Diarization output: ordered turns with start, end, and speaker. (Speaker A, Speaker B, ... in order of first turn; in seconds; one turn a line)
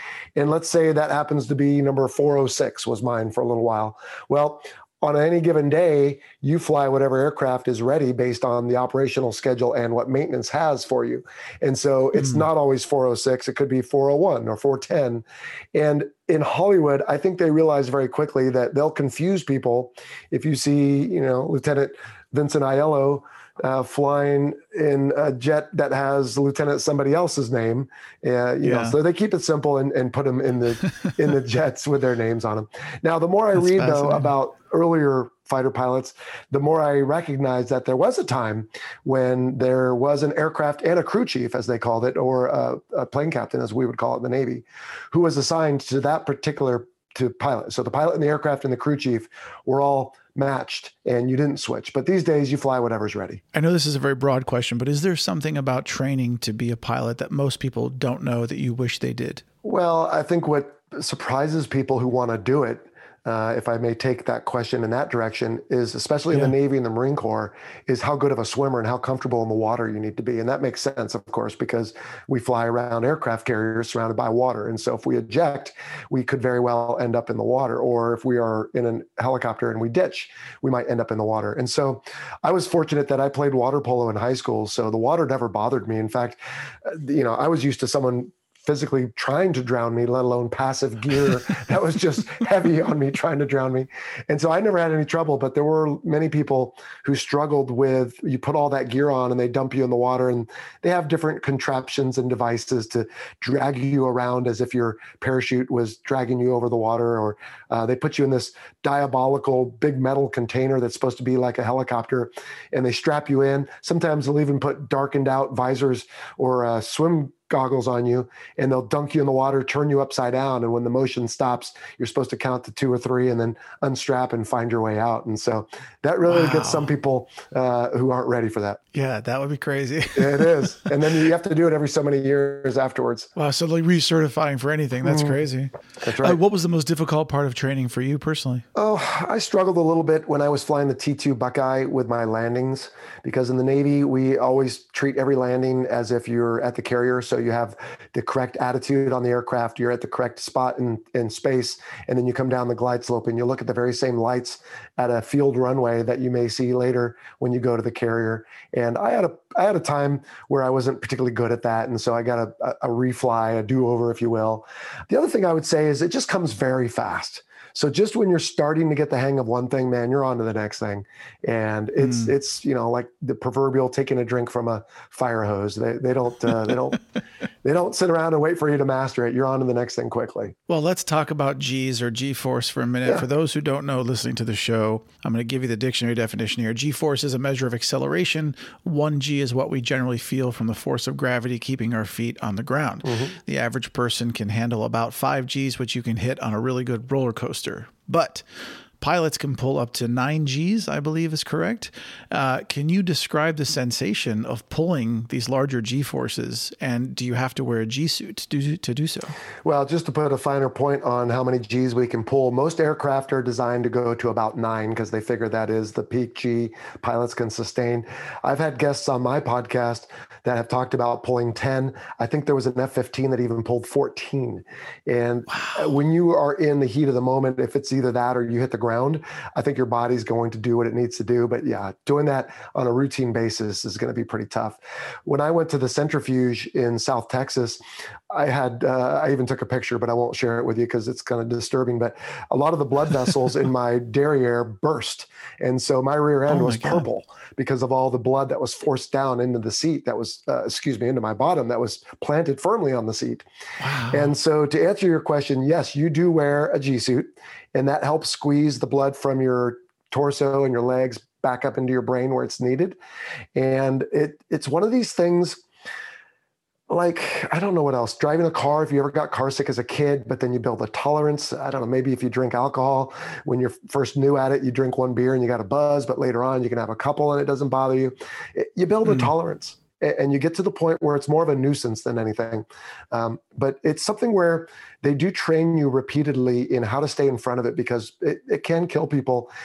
Speaker A: 0.3-53.4
Speaker B: 12.2-12.4
Speaker B: 28.6-29.0
Speaker B: 33.5-34.3
Speaker B: 53.5-59.4
Speaker A: 59.6-128.8
Speaker B: 126.2-126.9
Speaker B: 128.9-130.9
Speaker A: 130.1-133.3
Speaker B: 133.3-138.6
Speaker A: 135.0-135.4
Speaker A: 136.0-136.4
Speaker A: 138.7-177.0
Speaker B: 172.0-172.3
Speaker A: 177.6-180.5
Speaker B: 180.7-198.4
Speaker A: 193.0-193.4
Speaker B: 199.0-209.3
Speaker A: 209.6-237.8
Speaker B: 225.6-225.9
Speaker A: 238.3-253.4
Speaker B: 246.5-247.0
Speaker B: 253.8-254.3
Speaker A: 254.1-263.0
Speaker A: 263.5-265.6
Speaker A: 266.9-289.5